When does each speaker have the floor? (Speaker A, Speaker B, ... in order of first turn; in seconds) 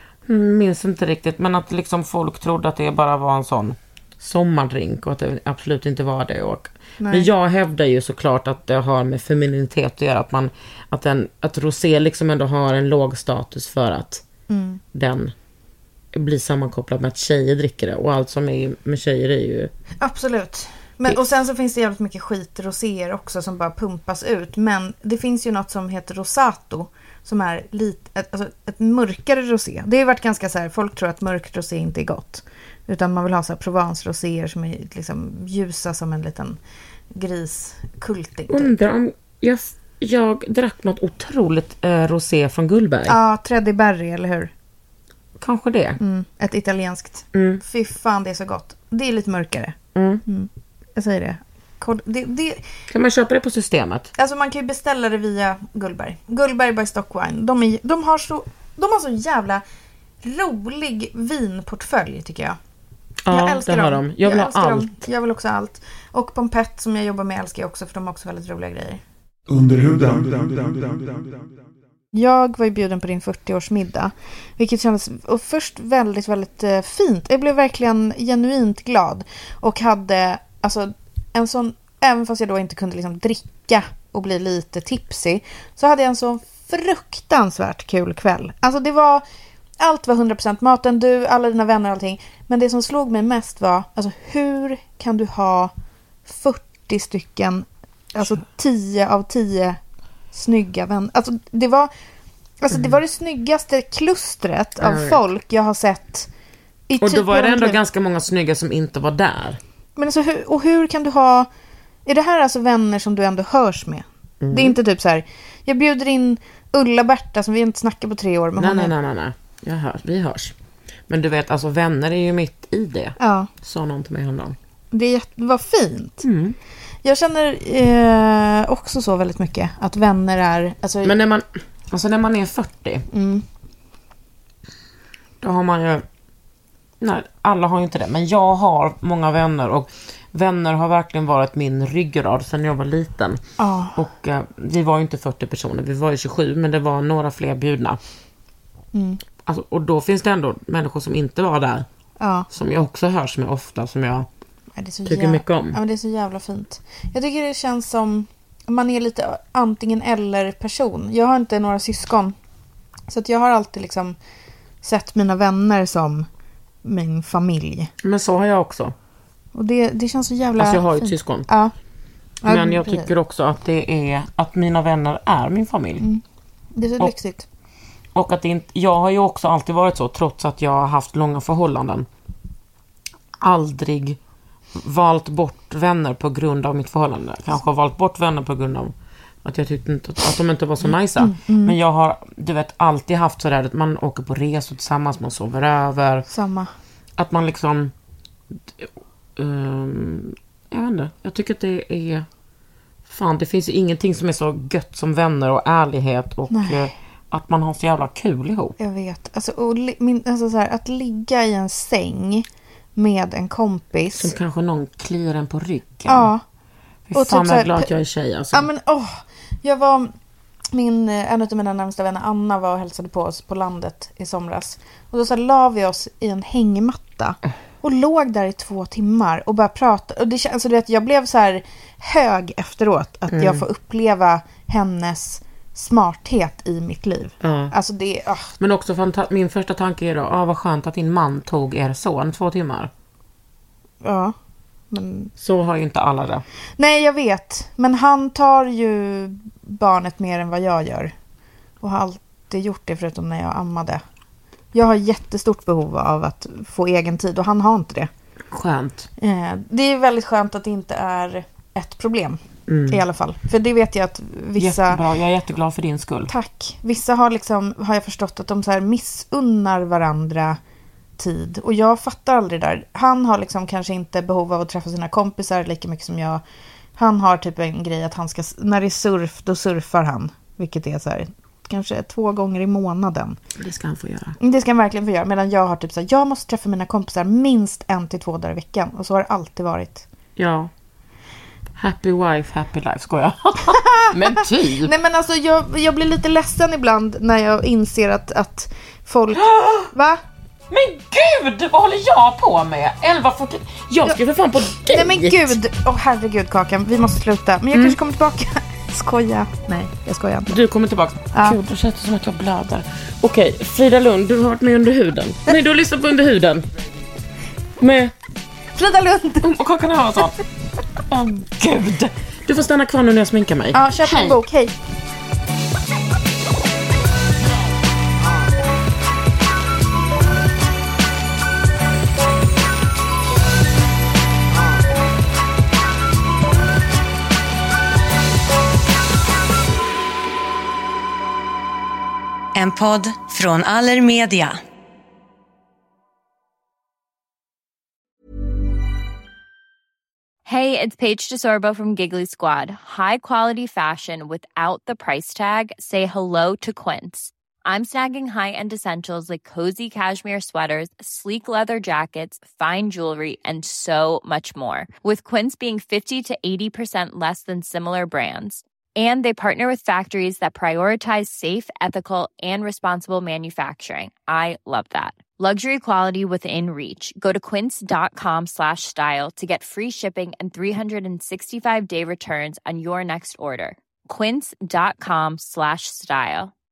Speaker A: 0.3-14.2, 14.9-15.3, 16.1-19.7, 38.5-43.2, 45.4-46.0, 47.3-47.6, 49.9-50.2, 52.9-54.1, 63.2-64.9, 104.8-105.2, 107.0-109.6, 114.4-114.8, 118.6-120.5, 121.1-124.5, 126.2-126.6, 131.0-133.0, 135.4-136.0, 137.0-143.4, 143.9-148.0, 149.4-151.9, 152.5-154.3, 155.1-155.8, 168.0-168.9, 170.6-171.5, 172.5-176.1, 178.1-182.1, 183.4-184.2, 184.8-188.9, 189.4-196.2, 197.2-197.9, 198.8-202.2, 203.1-208.8, 214.1-216.3, 217.1-218.7, 233.3-233.6, 237.4-237.7, 238.6-242.9, 245.4-246.4, 258.5-259.1, 262.7-263.0, 264.6-266.3, 283.6-284.3, 290.4-290.7, 291.8-294.9, 299.4-299.9, 300.7-305.6, 310.5-316.6, 317.8-318.1, 319.4-320.4, 321.1-324.4, 342.6-344.5
Speaker B: 7.0-7.3, 14.5-14.8, 20.0-36.6, 37.1-38.8, 43.0-44.5, 46.0-52.6, 54.1-59.6, 60.2-62.6, 63.3-69.0, 72.1-89.2, 89.8-95.7, 96.2-99.8, 100.3-101.9, 102.6-106.3, 106.9-107.8, 110.0-111.5, 112.0-118.9, 123.2-123.5, 124.9-126.2, 127.0-131.1, 133.1-133.4, 143.6-144.0, 148.9-149.2, 152.2-152.5, 154.7-162.3, 163.1-164.2, 164.8-166.3, 166.8-167.9, 169.5-171.7, 172.4-173.1, 176.0-177.5, 190.8-191.8, 196.3-196.7, 206.5-206.9, 208.8-214.3, 216.1-216.4, 217.1-217.9, 218.5-220.1, 220.7-238.5, 244.0-244.3, 244.9-245.3, 246.8-251.1, 251.8-254.0, 254.7-258.1, 259.2-265.0, 266.3-270.6, 271.2-276.4, 276.9-283.4, 284.4-290.1, 293.7-300.2, 304.8-310.5, 311.3-311.6, 318.7-319.5, 323.7-324.8
Speaker C: 69.5-71.5
Speaker D: 350.4-386.5